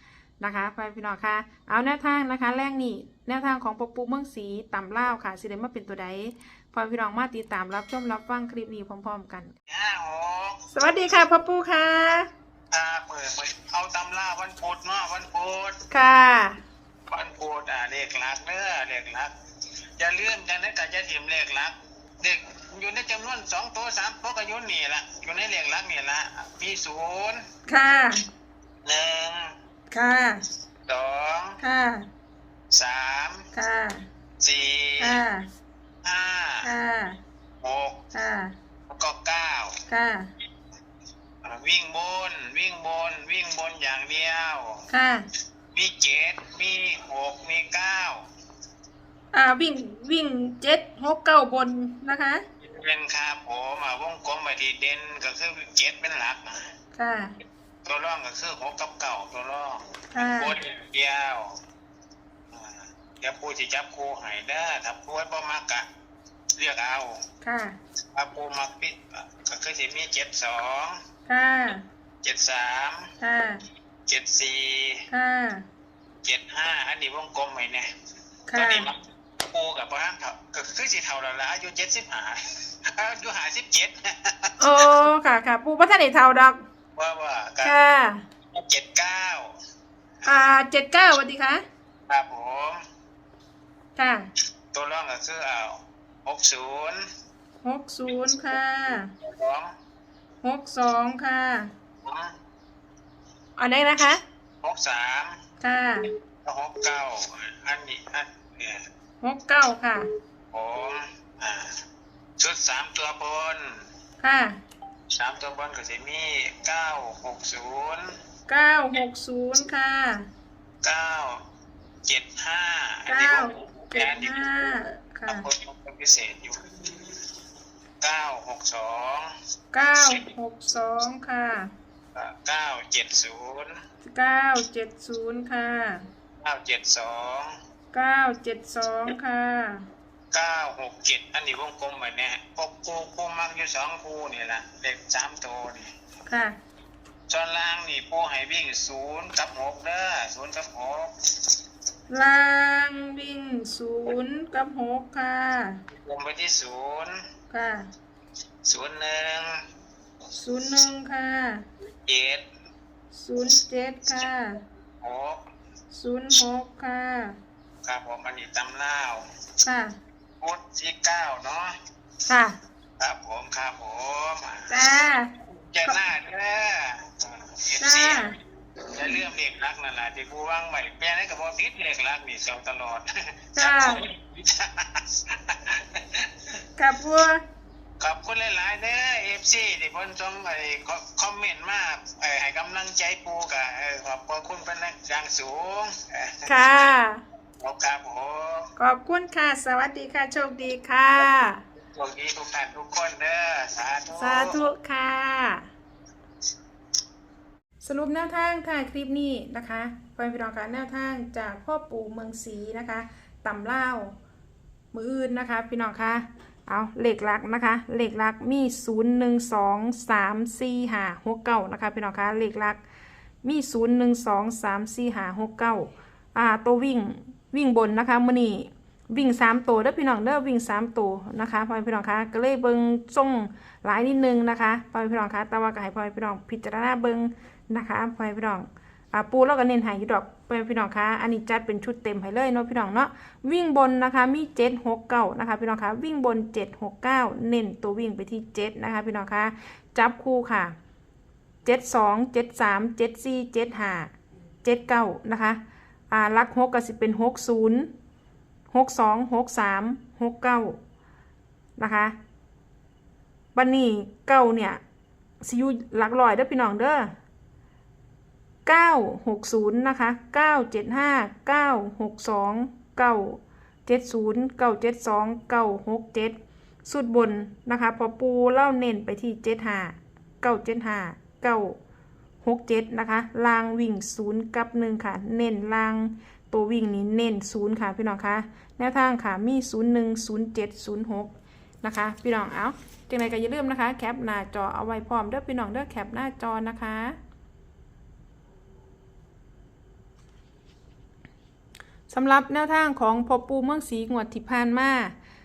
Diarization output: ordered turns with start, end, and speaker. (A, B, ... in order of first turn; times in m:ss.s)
0:00.4-0:09.5 A
0:09.7-0:10.6 B
0:10.7-0:12.3 A
0:12.7-0:15.8 B
0:15.9-0:16.6 A
0:17.1-0:19.3 B
0:20.0-0:27.4 B
0:27.7-0:28.2 A
0:28.8-0:29.6 B
0:29.9-0:30.4 A
0:30.9-0:31.6 B
0:31.6-0:32.0 A
0:32.7-0:33.5 B
0:33.6-0:34.0 A
0:34.4-0:35.2 B
0:35.0-0:35.4 A
0:36.0-0:36.7 B
0:36.6-0:37.2 A
0:37.6-0:38.0 B
0:38.1-0:38.5 A
0:38.9-0:39.8 B
0:39.9-0:40.3 A
0:41.4-0:44.8 B
0:44.9-0:45.2 A
0:45.7-0:48.2 B
0:49.3-0:52.4 A
0:52.6-0:56.7 B
0:57.0-0:57.3 A
0:57.8-1:01.6 B
1:00.1-1:00.5 A
1:02.5-1:05.9 B
1:06.6-1:07.2 B
1:07.4-1:07.8 A
1:08.1-1:11.0 B
1:11.3-1:11.8 A
1:12.2-1:13.1 B
1:13.2-1:13.6 A
1:14.1-1:15.1 B
1:15.1-1:15.6 A
1:16.2-1:17.9 B
1:18.5-1:18.9 A
1:18.5-1:24.5 B
1:24.6-1:26.6 A
1:27.0-1:27.8 B
1:27.6-1:28.2 A
1:28.5-1:29.5 B
1:30.2-1:31.6 A
1:32.1-1:32.8 B
1:34.0-1:34.3 A
1:34.7-1:37.0 B
1:37.6-1:39.1 A
1:39.2-1:39.7 B
1:40.4-1:41.7 A
1:42.0-1:42.3 B
1:43.6-1:44.2 A
1:44.6-1:45.4 B
1:45.6-1:46.1 A
1:46.4-1:48.9 B
1:49.2-1:50.1 A
1:50.5-1:51.8 B
1:52.4-1:53.8 B
1:54.2-1:54.6 A
1:55.1-1:58.1 B
1:58.5-2:00.3 A
2:00.8-2:01.4 B
2:02.0-2:04.7 B
2:03.1-2:05.4 A
2:05.3-2:07.3 B
2:08.0-2:09.3 B
2:09.7-2:11.7 A
2:12.1-2:13.8 B
2:14.1-2:16.0 A
2:16.4-2:17.6 B
2:17.9-2:19.8 A
2:20.3-2:25.9 B
2:26.3-2:26.6 A
2:27.3-2:31.1 B
2:32.1-2:35.8 A
2:35.9-2:37.2 B
2:37.5-2:37.9 A
2:38.6-2:39.6 B
2:40.4-2:41.6 A
2:42.1-2:42.4 B
2:43.2-2:44.6 A
2:45.0-2:45.4 B
2:45.9-2:47.3 A
2:47.8-2:49.2 B
2:49.6-2:49.9 A
2:50.4-2:51.7 B
2:52.3-2:52.6 A
2:53.0-2:54.8 B
2:54.7-2:55.3 A
2:55.5-2:58.3 B
2:57.8-2:58.3 A
2:58.9-3:06.6 B
3:03.6-3:04.0 A
3:06.8-3:07.4 A
3:08.0-3:16.5 B
3:16.4-3:17.2 A
3:17.6-3:18.7 B
3:18.8-3:21.6 A
3:21.8-3:24.6 B
3:24.1-3:25.7 A
3:27.8-3:34.2 A
3:34.9-3:42.8 A
3:43.4-4:10.8 A
4:11.6-4:14.1 A
4:14.6-4:17.9 A
4:18.7-4:20.8 A
4:21.8-4:22.2 A
4:23.6-4:24.8 A
4:25.4-4:27.1 A
4:28.6-4:41.8 A
4:42.4-4:57.2 A
5:02.1-5:05.1 A